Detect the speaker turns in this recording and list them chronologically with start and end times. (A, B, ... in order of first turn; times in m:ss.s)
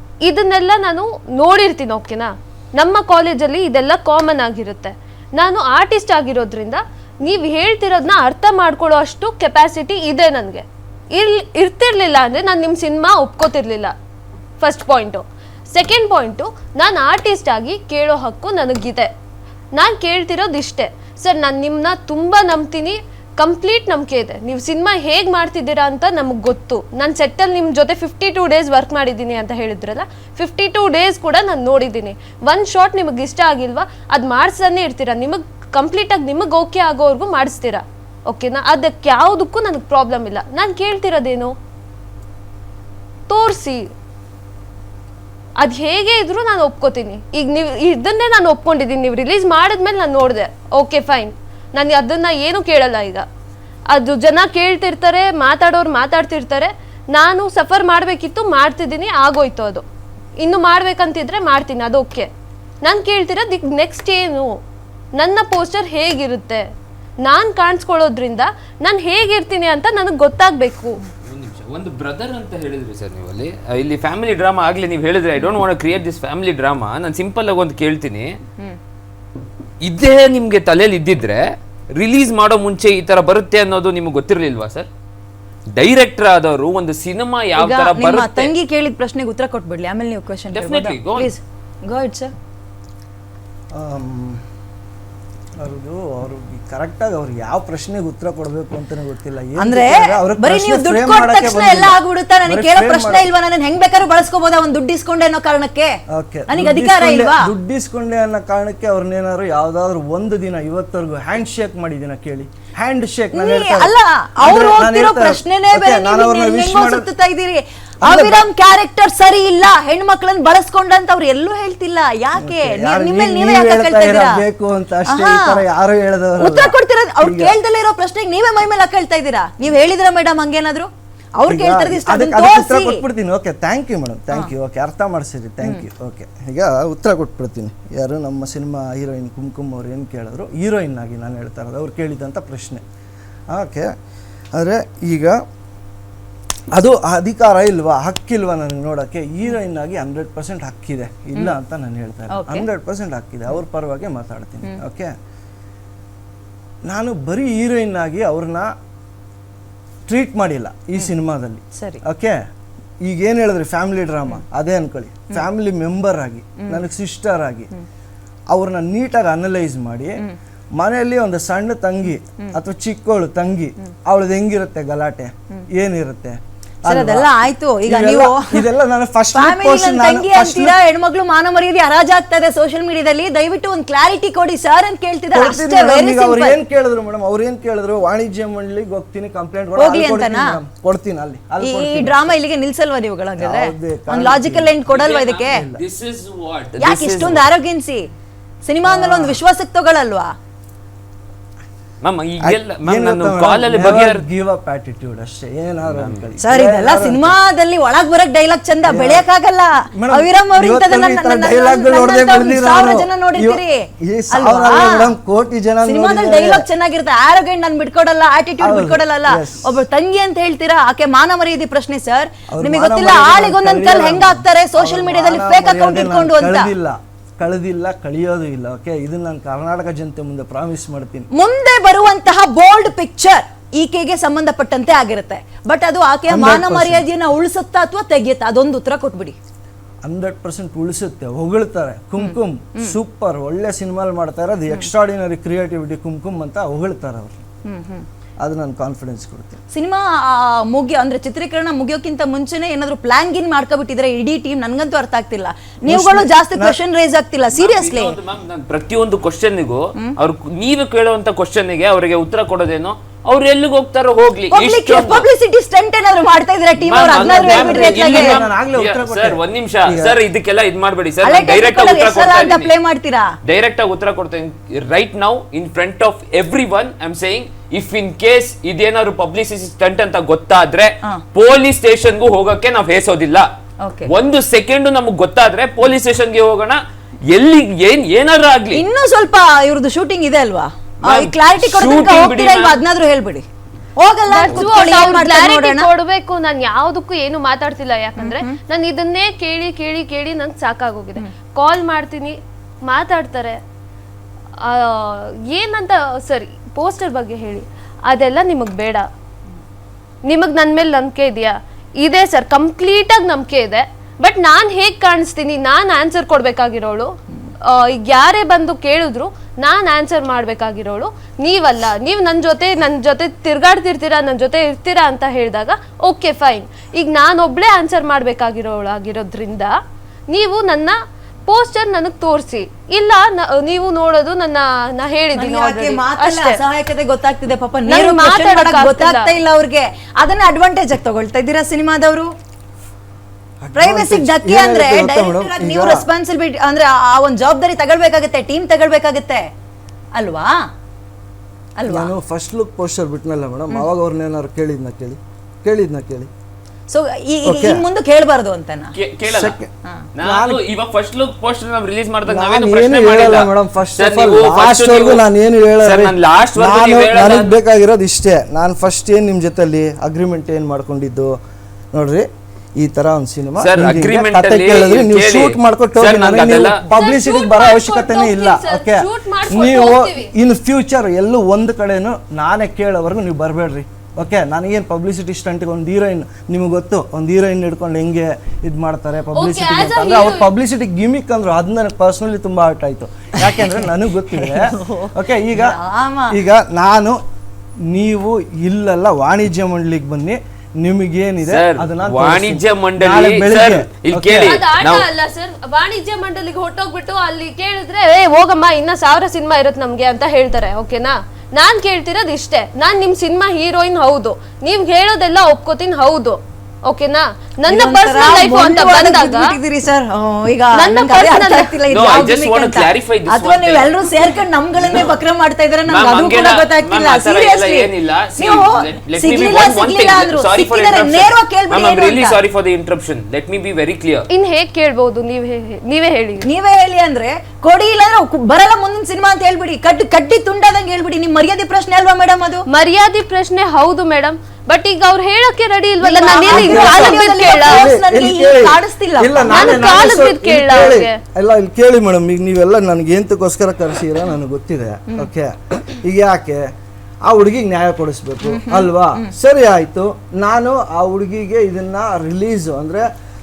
0:00.2-0:13.9 A
0:14.6-0:19.1 A
0:19.7-0:41.5 A
0:43.3-0:43.9 A
0:45.6-0:53.2 A
0:53.9-0:59.8 A
1:00.4-1:02.3 A
1:02.8-1:04.6 A
1:05.2-1:06.6 A
1:07.2-1:11.0 A
1:11.2-1:18.4 B
1:19.8-1:24.9 B
1:25.7-1:28.5 B
1:27.6-1:32.3 C
1:30.5-1:31.3 B
1:33.7-1:34.4 D
1:35.6-1:43.3 D
1:39.6-1:46.0 C
1:46.1-1:57.1 D
1:46.5-1:47.5 C
1:53.3-2:04.4 C
1:58.0-1:58.4 D
2:02.3-2:07.5 D
2:05.1-2:05.6 C
2:06.4-2:13.0 C
2:11.4-2:22.8 D
2:23.5-2:23.9 D
2:24.5-2:25.4 D
2:26.7-2:35.1 D
2:32.3-2:32.6 C
2:36.9-2:38.7 D
2:40.1-2:42.4 D
2:41.8-2:42.0 C
2:43.0-2:47.7 D
2:48.5-2:50.2 D
2:50.8-2:57.3 D
2:56.8-2:58.6 C
2:57.8-3:00.8 D
2:59.3-3:06.6 C
3:05.3-3:12.3 D
3:09.8-3:10.6 C
3:11.6-3:15.6 C
3:13.4-3:14.8 D
3:14.9-3:17.5 B
3:15.4-3:15.8 D
3:16.8-3:18.1 C
3:18.6-3:20.3 C
3:18.9-3:19.3 D
3:22.0-3:24.2 B
3:22.4-3:27.4 D
3:25.9-3:26.2 B
3:26.4-3:35.1 C
3:28.8-3:29.2 D
3:29.9-3:36.7 D
3:35.8-3:46.7 C
3:38.6-3:39.8 D
3:42.5-3:51.3 D
3:51.3-3:59.4 C
3:56.3-3:57.1 D
4:00.0-4:07.4 D
4:02.2-4:02.9 C
4:07.6-4:08.0 C
4:08.4-4:09.6 D
4:09.7-4:18.2 C
4:15.8-4:16.8 D
4:17.5-4:25.2 B
4:24.5-4:28.4 C
4:26.8-4:32.7 B
4:27.1-4:30.2 D
4:31.2-4:33.4 C
4:33.4-4:43.5 B
4:43.8-4:44.1 C
4:44.1-4:46.8 B
4:47.3-4:48.8 B
4:48.7-4:53.4 C
4:51.0-4:52.8 B
4:54.0-4:55.9 C
4:54.3-5:03.6 A
4:58.2-4:58.6 C
5:04.6-5:09.0 A
5:10.2-5:29.7 A
5:30.3-5:31.0 A
5:31.5-5:36.6 A
5:35.4-5:42.3 C
5:37.9-5:39.4 A
5:43.6-5:46.1 D
5:43.7-5:49.5 C
5:50.1-5:50.7 C
5:51.8-5:52.1 C
5:51.9-5:56.3 D
5:56.9-5:58.9 C
5:57.4-5:57.8 D
5:58.9-5:59.6 B
5:59.3-6:00.6 D
6:00.2-6:05.2 B
6:02.2-6:11.4 D
6:05.8-6:07.5 B
6:11.9-6:35.8 D
6:13.6-6:16.8 B
6:16.9-6:20.3 A
6:29.3-6:30.5 A
6:34.4-6:36.3 C
6:36.3-6:37.2 D
6:37.9-6:44.5 D
6:41.4-6:45.1 B
6:44.4-6:59.4 A
6:57.7-7:12.4 C
7:00.7-7:01.8 A
7:01.9-7:03.9 B
7:05.9-7:14.2 B
7:14.3-7:16.5 A
7:16.4-7:22.6 C
7:22.7-7:27.9 A
7:26.0-7:30.0 C
7:26.5-7:36.7 D
7:29.5-7:31.2 A
7:37.2-7:43.1 D
7:38.4-7:39.3 C